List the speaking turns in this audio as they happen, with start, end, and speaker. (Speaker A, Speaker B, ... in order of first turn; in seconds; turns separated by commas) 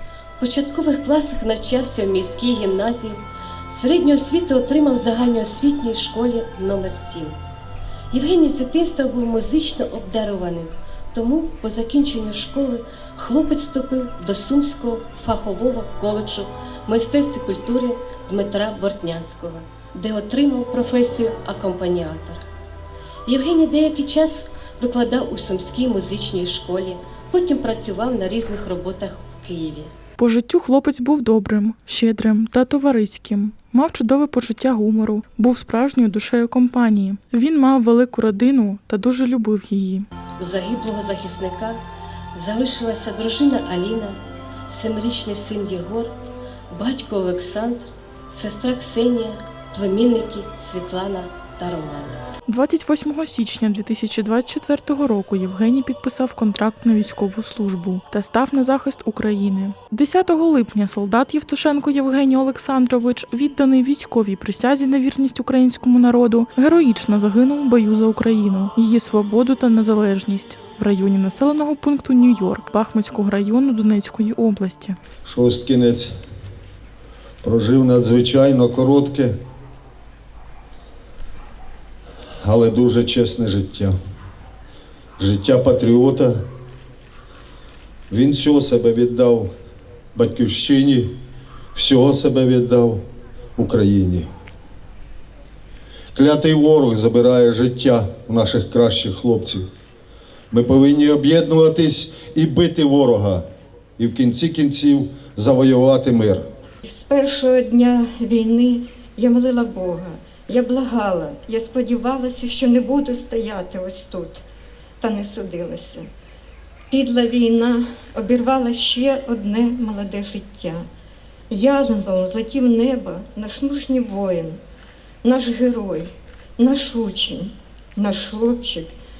Speaker A: 0.4-7.4, Speaker A: 8.1-22.4, Speaker A: 23.2-29.9, Speaker B: 30.2-40.0, Speaker A: 40.4-41.8, Speaker A: 42.3-46.1, Speaker A: 46.7-52.2, Speaker B: 52.5-75.0, Speaker C: 75.2-76.1, Speaker C: 77.4-79.4, Speaker C: 82.4-83.9, Speaker C: 85.2-86.5, Speaker C: 88.1-89.5, Speaker C: 90.1-91.2, Speaker C: 91.7-93.0, Speaker C: 93.6-94.3, Speaker C: 96.1-99.7, Speaker C: 100.5-103.5, Speaker C: 104.0-106.4, Speaker D: 106.8-114.4, Speaker D: 115.0-116.1, Speaker D: 116.9-120.8, Speaker D: 121.5-124.6, Speaker D: 125.2-128.9